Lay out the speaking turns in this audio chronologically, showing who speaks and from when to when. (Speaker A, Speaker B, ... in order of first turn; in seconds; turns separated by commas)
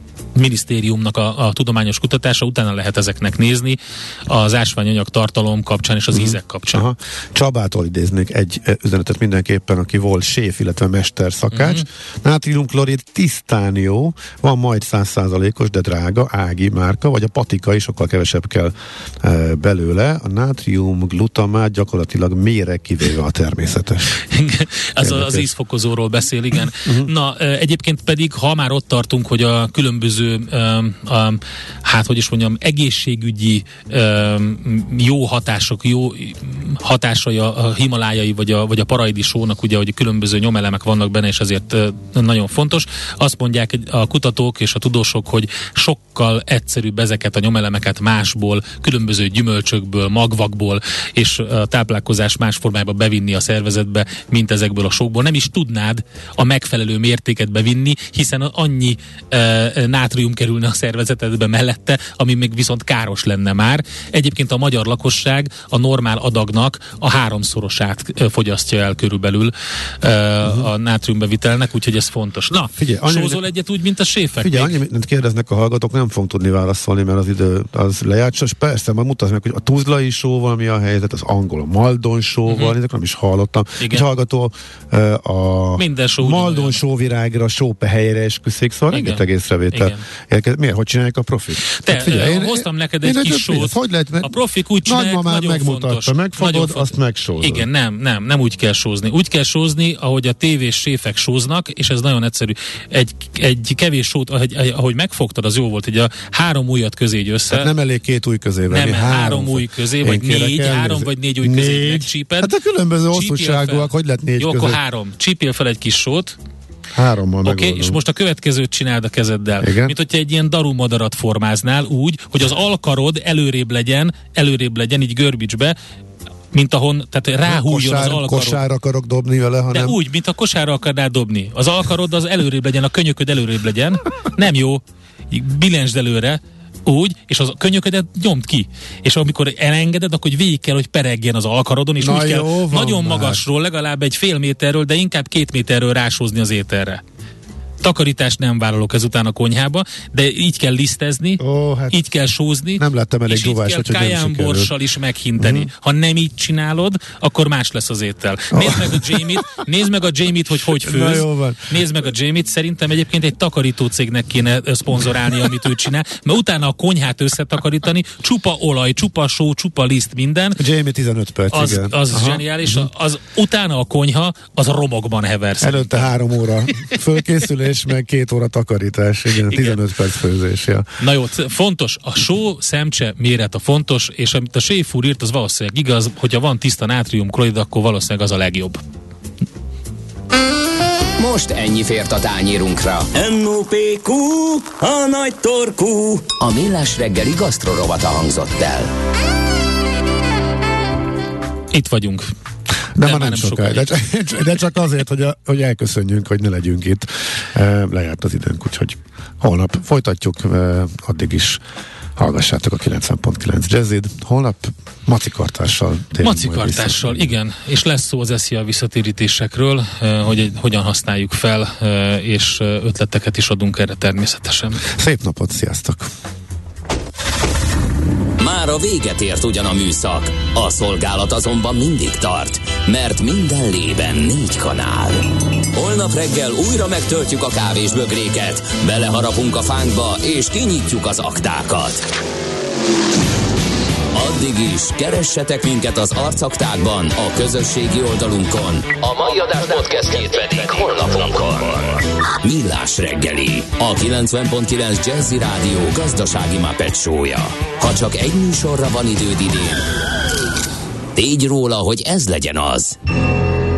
Speaker A: 0.3-6.9, Speaker B: 6.1-24.2, Speaker A: 11.5-11.8, Speaker A: 24.3-74.8, Speaker B: 25.0-25.4, Speaker B: 26.9-27.1, Speaker B: 70.4-70.7, Speaker B: 72.8-73.4, Speaker B: 74.4-97.7, Speaker A: 82.5-82.8, Speaker A: 83.8-84.1, Speaker A: 85.8-86.8, Speaker A: 88.9-90.0, Speaker A: 91.8-107.7, Speaker B: 107.5-114.8, Speaker A: 108.7-112.5, Speaker A: 113.1-116.4, Speaker B: 117.0-118.0, Speaker A: 117.5-125.8, Speaker B: 119.6-120.0, Speaker A: 126.5-128.6, Speaker B: 127.5-130.0, Speaker A: 129.7-147.0, Speaker B: 142.0-143.4, Speaker A: 147.8-170.6, Speaker B: 151.4-152.0, Speaker B: 152.8-154.7, Speaker B: 155.4-155.7, Speaker B: 158.5-159.4, Speaker B: 160.8-161.8, Speaker B: 170.6-172.9, Speaker A: 171.5-176.1, Speaker B: 175.6-180.9, Speaker A: 179.5-179.8, Speaker A: 181.0-188.8, Speaker C: 191.2-198.9, Speaker A: 201.7-202.3, Speaker B: 202.9-211.6, Speaker A: 203.0-204.0, Speaker B: 212.2-217.3, Speaker A: 216.2-224.8, Speaker B: 224.9-226.1, Speaker C: 228.4-242.0, Speaker C: 244.1-259.8, Speaker C: 261.1-263.0